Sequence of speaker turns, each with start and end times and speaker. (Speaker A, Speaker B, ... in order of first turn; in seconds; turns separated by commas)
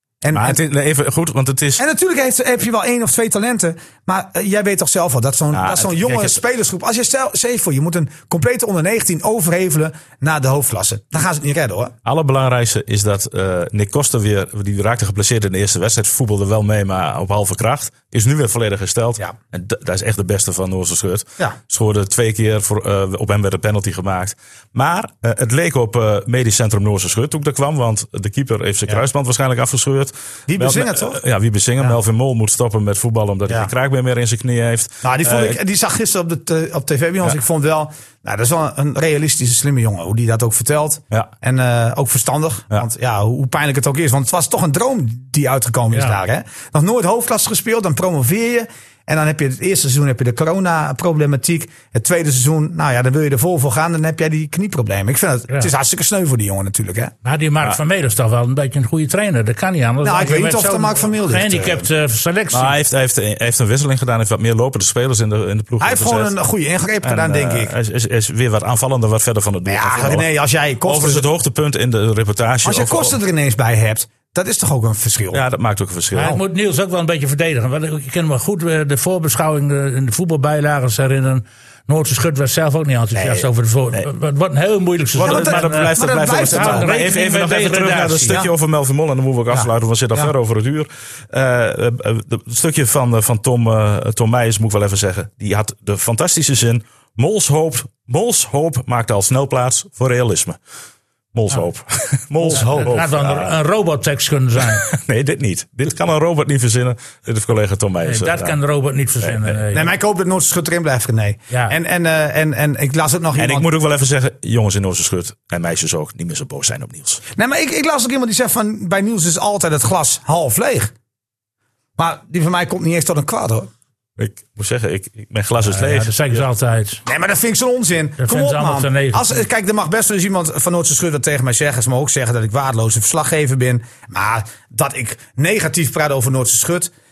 Speaker A: 0.2-0.6, Speaker B: 0.3-1.8, Speaker A: 1.8-11.9, Speaker B: 5.5-6.4, Speaker B: 12.0-35.6, Speaker A: 30.5-31.2, Speaker A: 35.0-57.1, Speaker C: 57.2-62.7, Speaker A: 60.0-61.9, Speaker B: 62.5-66.3, Speaker A: 65.8-67.7, Speaker B: 67.0-70.2, Speaker A: 69.7-71.2, Speaker B: 70.8-73.2, Speaker A: 72.6-75.4, Speaker B: 75.3-76.3, Speaker C: 76.1-88.4, Speaker A: 83.1-83.5, Speaker B: 85.2-100.6, Speaker A: 85.2-86.9, Speaker A: 89.5-90.3, Speaker B: 101.3-103.5, Speaker C: 102.4-104.8, Speaker A: 102.5-102.9, Speaker B: 104.8-108.6, Speaker C: 108.0-109.9, Speaker B: 109.2-109.6, Speaker A: 109.7-113.7, Speaker C: 111.5-111.8, Speaker B: 113.4-117.2, Speaker A: 117.3-120.9, Speaker A: 122.0-123.7, Speaker B: 124.2-126.4, Speaker C: 125.6-127.0, Speaker A: 127.0-136.9, Speaker C: 128.2-129.4